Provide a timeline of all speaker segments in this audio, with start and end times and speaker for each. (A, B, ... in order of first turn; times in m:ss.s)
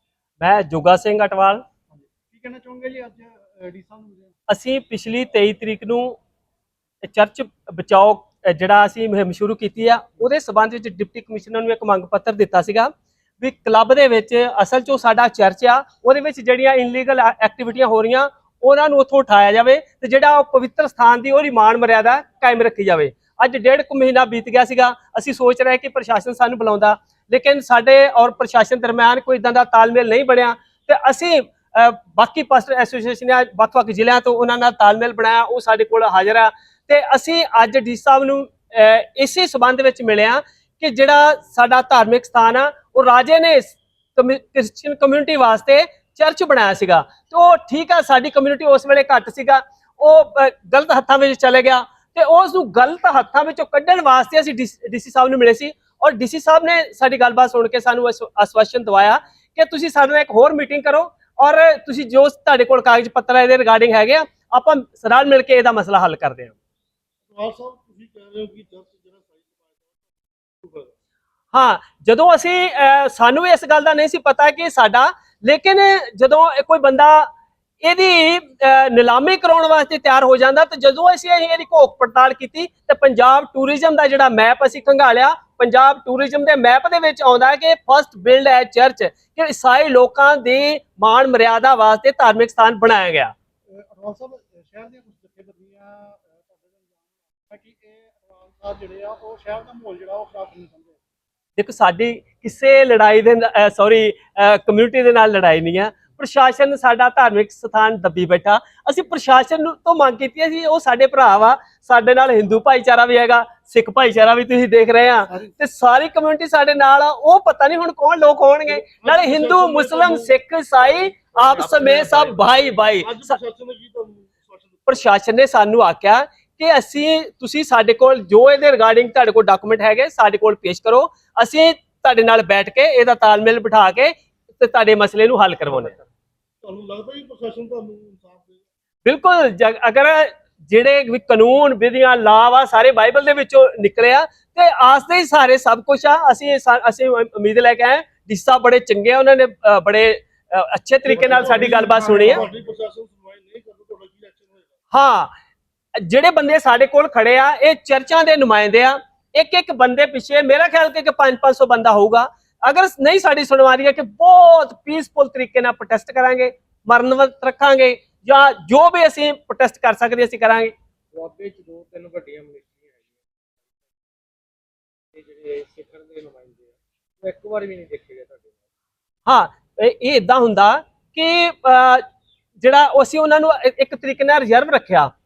0:00.4-0:01.6 A
0:01.9-0:04.3 B
0:04.5-0:06.2 A
0:07.0-1:06.5 A
1:07.3-1:10.9 B
1:11.5-1:17.3 A
1:17.8-1:33.3 A
1:33.7-1:41.0 B
1:41.6-2:03.4 A
1:58.8-2:00.3 B
2:01.4-2:05.0 B
2:04.9-2:16.0 A
2:16.6-2:18.6 B
2:19.0-2:32.4 A
2:31.0-2:34.7 B
2:34.9-2:35.3 A
2:36.0-2:50.7 A
2:51.1-2:53.9 C
2:55.1-2:58.7 C
2:59.3-3:02.0 A
3:02.6-3:05.1 A